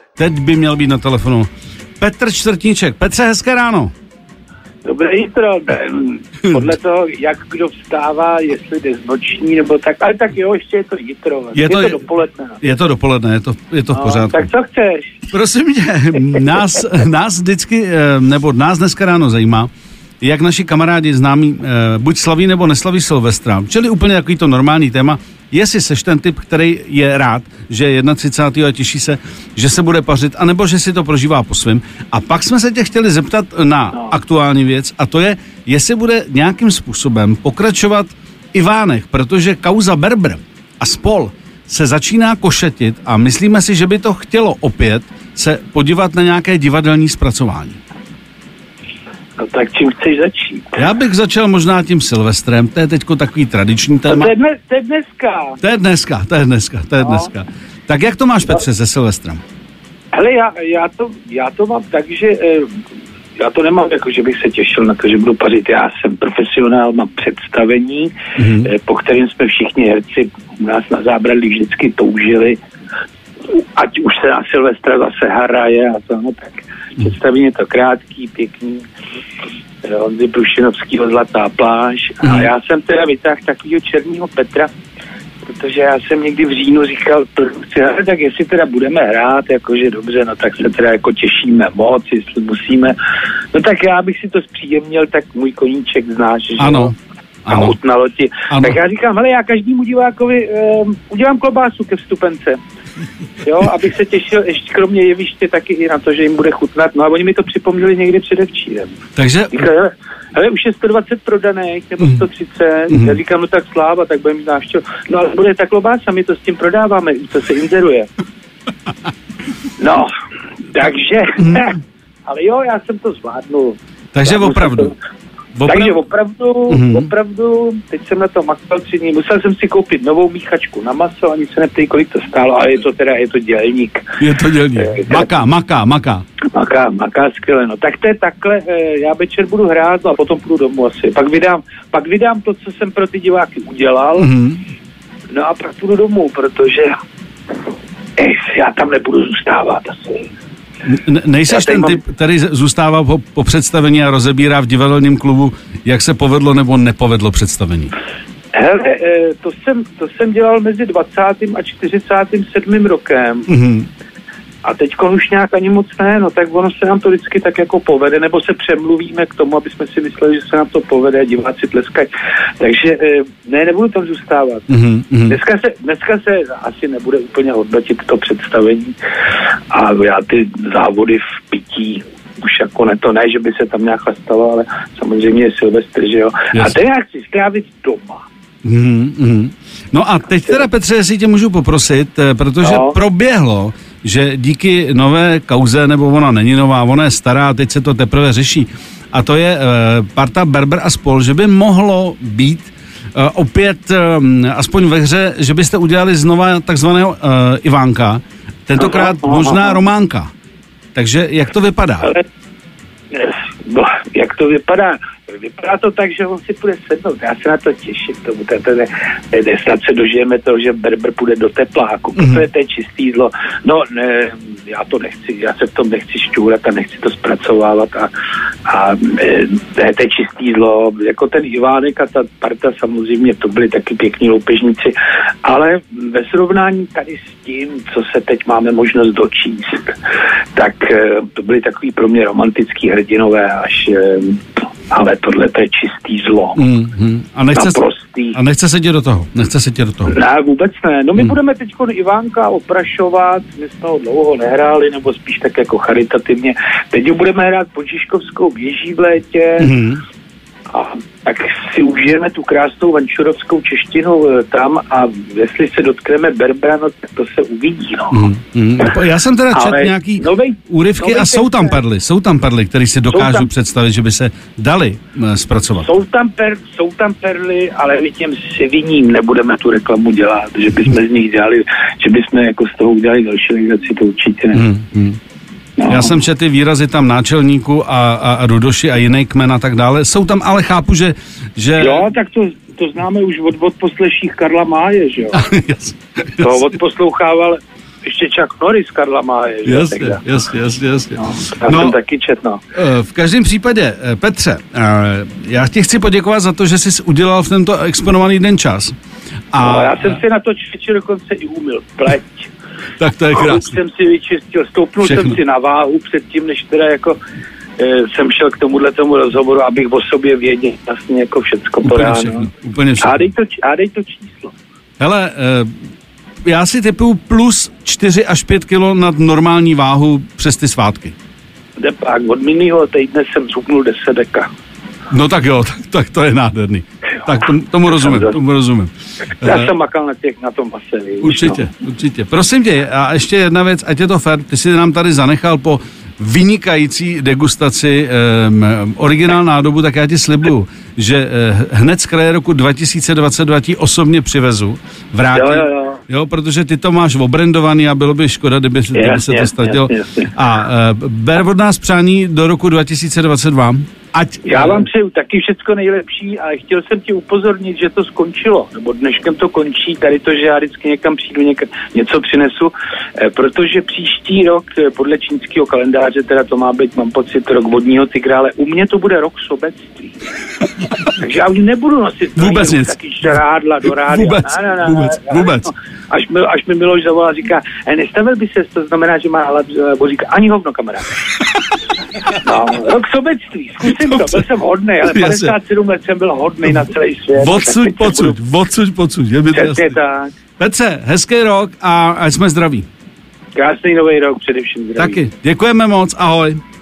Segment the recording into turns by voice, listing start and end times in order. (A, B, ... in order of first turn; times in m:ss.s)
0:00.2-0:01.5 A
0:02.0-0:03.9 A
0:04.8-0:12.6 B
0:06.4-0:06.7 A
0:11.6-0:12.0 A
0:12.6-0:14.5 A
0:13.9-0:15.2 B
0:15.3-0:19.7 A
0:20.2-0:47.8 A
0:49.4-0:50.8 B
0:50.8-0:54.3 A
0:54.1-0:55.6 B
0:55.6-0:59.4 A
0:57.0-0:57.3 B
1:00.1-1:02.8 B
1:03.4-1:12.6 B
1:08.4-1:08.7 A
1:13.5-1:18.9 B
1:19.8-1:24.7 B
1:22.2-1:22.5 A
1:25.5-1:33.0 B
1:33.5-1:36.9 B
1:36.6-1:37.8 A
1:37.5-1:42.6 B
1:38.5-1:38.8 A
1:43.4-1:49.0 B
1:49.2-1:49.7 A
1:49.5-1:58.1 B
1:52.9-1:53.2 A
1:59.8-2:00.1 B
2:00.7-2:04.9 B
2:04.1-2:04.9 A
2:05.6-2:06.0 A
2:05.7-2:14.2 B
2:06.7-2:07.1 A
2:14.2-2:16.2 A
2:14.8-2:15.4 B
2:16.5-2:24.3 B
2:24.2-2:24.6 A
2:25.3-2:27.0 B
2:28.2-2:30.3 B
2:30.9-2:37.9 A
2:31.5-2:32.0 B
2:38.5-2:43.5 B
2:43.5-2:43.9 A
2:44.6-2:54.7 B
2:54.7-2:55.4 A
2:55.3-2:58.9 B
2:59.7-3:08.2 B
3:08.6-3:30.3 A
3:12.6-3:13.0 B
3:28.8-3:29.8 B
3:31.0-3:32.1 A
3:33.1-3:48.1 B
3:42.2-3:42.4 A
3:48.7-4:00.0 B
4:00.6-4:06.6 B
4:06.6-4:07.8 A
4:07.5-4:08.4 B
4:08.3-4:10.2 A
4:10.1-4:19.7 B
4:19.6-4:20.0 A
4:20.7-4:28.3 B
4:28.1-4:35.9 A
4:29.5-4:31.8 B
4:33.1-4:33.5 B
4:35.8-4:44.6 B
4:44.5-4:45.2 A
4:45.8-4:46.2 B
4:45.9-4:52.1 A
4:51.8-4:55.5 B
4:55.3-4:56.6 A
4:56.4-5:00.2 B
4:59.7-5:02.0 A
5:01.2-5:02.6 B
5:02.8-5:09.0 A
5:09.5-5:10.2 A
5:09.6-5:12.5 B
5:13.0-5:13.8 A
5:13.3-5:17.2 B
5:15.0-5:15.4 A
5:17.8-5:24.6 B
5:21.8-5:23.3 A
5:25.0-5:25.7 A
5:26.5-5:31.2 A
5:31.8-5:34.5 B
5:35.1-5:39.7 A
5:38.0-5:38.3 B
5:39.4-5:41.6 B
5:41.2-6:04.9 A
5:55.3-5:56.0 B
5:58.9-6:00.3 B
6:04.5-6:20.2 B
6:21.1-6:31.2 B
6:22.4-6:23.4 A
6:24.0-6:25.7 A
6:32.3-6:38.4 B
6:33.8-6:34.4 A
6:35.0-6:35.6 A
6:36.6-6:40.0 A
6:39.5-6:40.3 B
6:40.6-6:42.9 A
6:43.6-6:45.2 B
6:45.0-6:46.6 A